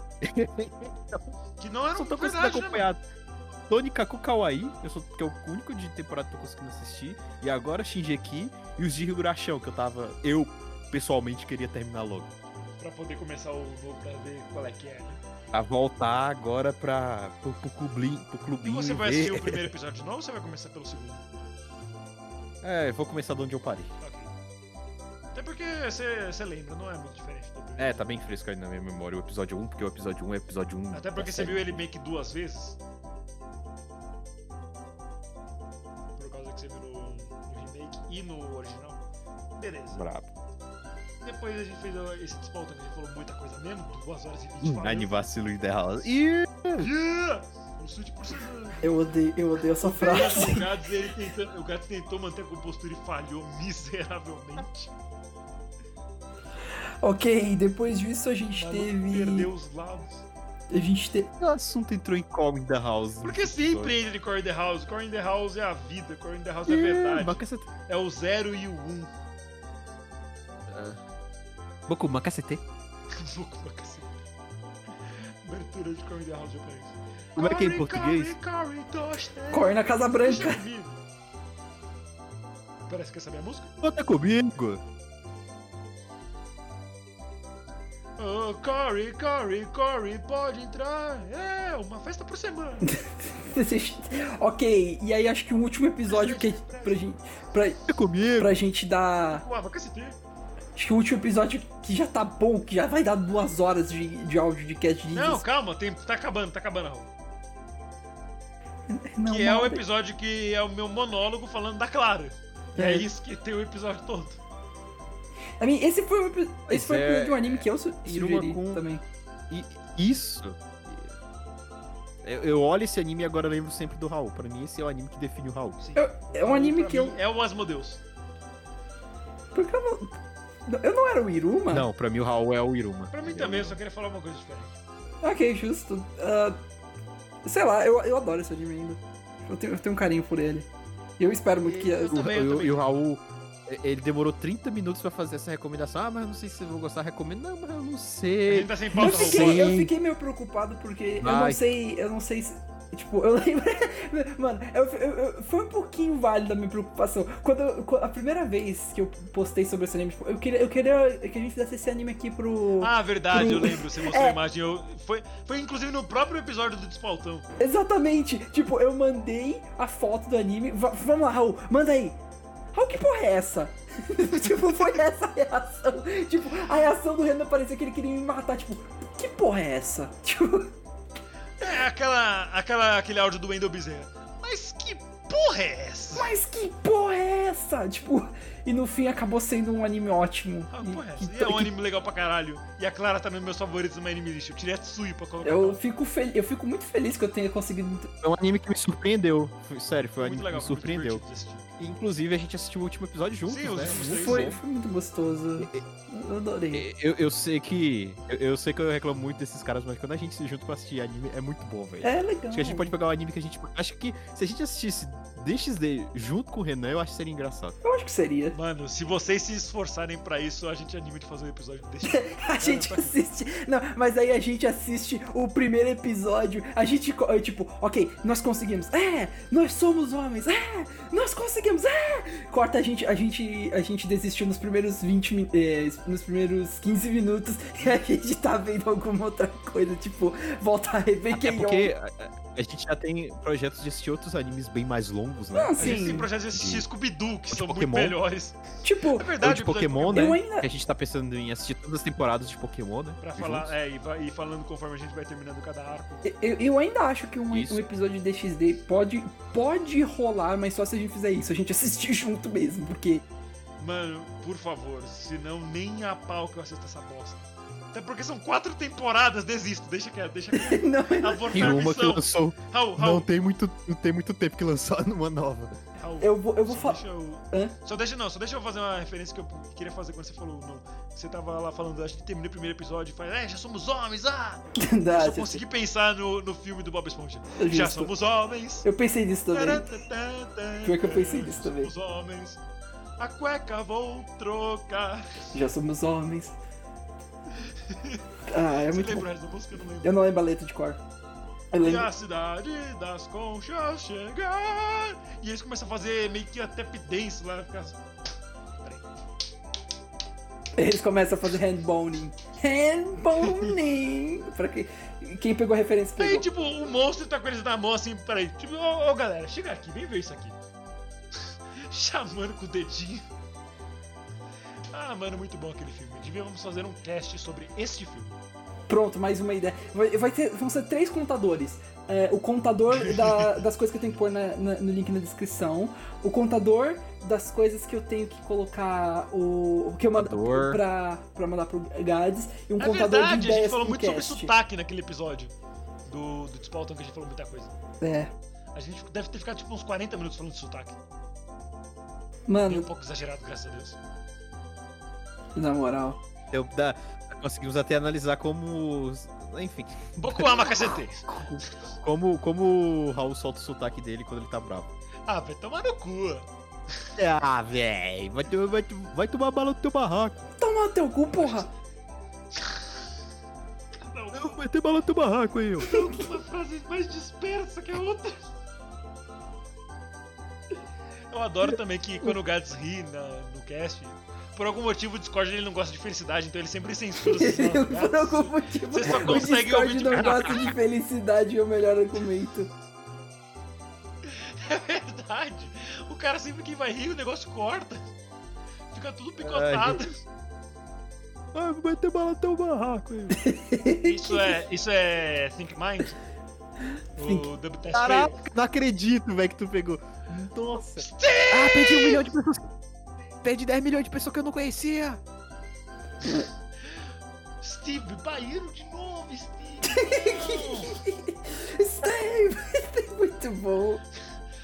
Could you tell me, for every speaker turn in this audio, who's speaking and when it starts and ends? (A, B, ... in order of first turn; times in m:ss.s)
0:00.2-0:01.4 A
0:01.6-0:02.9 B
0:01.9-0:03.0 A
0:03.7-0:12.4 A
0:12.8-0:15.2 B
0:15.5-0:19.7 A
0:18.6-0:21.2 B
0:22.6-0:23.9 A
0:24.0-0:24.3 B
0:25.3-0:28.0 B
0:27.8-0:31.8 A
0:30.9-0:32.8 B
0:36.2-0:39.0 B
0:39.6-0:40.1 B
0:39.9-0:40.3 A
0:41.2-0:45.2 B
0:44.6-0:46.9 A
0:46.8-0:48.9 B
0:48.8-0:50.8 C
0:49.8-0:54.9 B
0:57.0-0:59.5 C
0:58.6-1:00.3 B
1:00.7-1:01.3 C
1:01.4-1:04.0 A
1:03.2-1:09.1 B
1:06.7-1:07.7 A
1:10.7-1:11.0 A
1:11.9-1:12.6 A
1:13.1-1:14.2 B
1:15.0-1:21.0 B
1:17.4-1:18.4 A
1:19.5-1:20.6 C
1:22.9-1:23.7 B
1:23.8-1:24.8 A
1:28.2-1:32.9 B
1:32.8-1:39.4 C
1:36.1-1:37.0 B
1:37.9-1:38.6 A
1:39.3-1:40.2 B
1:40.8-1:45.4 C
1:45.1-1:47.1 B
1:48.9-1:49.8 C
1:49.2-1:54.4 B
1:52.8-1:53.1 C
1:55.6-1:59.0 C
1:56.7-1:58.8 A
1:59.5-2:01.1 A
2:02.2-2:05.8 A
2:05.8-2:08.0 B
2:06.0-2:07.2 C
2:09.5-2:10.1 C
2:10.7-2:11.9 C
2:11.7-2:13.8 A
2:13.1-2:14.8 B
2:15.2-2:16.6 C
2:17.4-2:22.2 C
2:21.7-2:23.0 B
2:22.1-2:29.9 A
2:28.5-2:29.7 B
2:29.0-2:44.4 C
2:31.2-2:31.6 A
2:42.8-2:47.5 B
2:47.6-2:52.2 C
2:52.7-3:00.7 C
3:01.6-3:06.3 B
3:06.2-3:11.7 C
3:10.7-3:15.8 B
3:15.4-3:18.1 C
3:18.2-3:21.2 A
3:20.2-3:21.7 B
3:21.8-3:24.6 A
3:23.5-3:24.6 B
3:23.9-3:26.9 C
3:25.6-3:25.8 A
3:26.7-3:37.8 A
3:32.0-3:32.9 C
3:37.8-3:38.6 C
3:38.5-3:43.2 B
3:42.0-4:01.9 C
4:01.3-4:06.9 A
4:05.5-4:06.3 C
4:05.8-4:10.4 B
4:07.5-4:08.2 A
4:08.8-4:09.3 C
4:09.4-4:13.7 A
4:10.1-4:10.7 C
4:13.2-4:16.3 B
4:16.2-4:23.2 C
4:17.5-4:17.8 A
4:23.8-4:33.3 B
4:30.5-4:31.8 C
4:31.5-4:35.8 A
4:36.0-4:48.9 B
4:36.2-4:37.8 C
4:44.8-4:45.6 C
4:47.6-4:48.1 C
4:48.8-4:49.9 C
4:49.5-4:52.6 B
4:50.8-4:51.9 C
4:53.2-4:55.6 B
4:55.5-4:56.6 C
4:57.6-4:58.2 B
4:58.5-4:59.3 C
4:58.8-5:00.2 B
5:00.0-5:01.0 C
5:01.7-5:02.1 C
5:01.8-5:08.0 B
5:08.8-5:09.1 B
5:10.8-5:16.5 C
5:13.4-5:13.7 B
5:16.2-5:20.6 B
5:21.7-5:23.3 B
5:24.9-5:28.4 B
5:28.9-5:44.5 C
5:33.0-5:33.6 B
5:40.2-5:40.8 A
5:42.8-5:45.5 B
5:46.1-5:47.8 B
5:48.0-5:48.3 C
5:48.7-5:51.0 B
5:52.5-5:52.9 C
5:52.7-5:54.0 B
5:55.6-5:56.2 C
5:56.5-6:00.6 A
6:00.2-6:01.3 B
6:00.8-6:01.6 C
6:02.0-6:04.9 A
6:05.3-6:07.1 B
6:07.2-6:10.4 A
6:10.6-6:11.7 C
6:11.3-6:11.7 B
6:12.5-6:13.0 B
6:14.0-6:14.6 B
6:14.3-6:16.0 A
6:15.8-6:18.5 B
6:21.3-6:30.7 B
6:27.2-6:32.7 C
6:30.2-6:30.7 A
6:34.2-6:38.1 B
6:38.9-6:40.2 B
6:39.4-6:40.1 A
6:41.5-6:43.4 A
6:43.3-6:44.6 C
6:44.0-6:46.2 B
6:47.2-6:48.4 B
6:47.2-6:47.5 C
6:47.9-6:52.7 A
6:51.0-6:52.2 B
6:53.4-6:55.2 A
6:56.2-6:57.1 B
6:57.6-7:01.0 B
6:59.9-7:04.0 C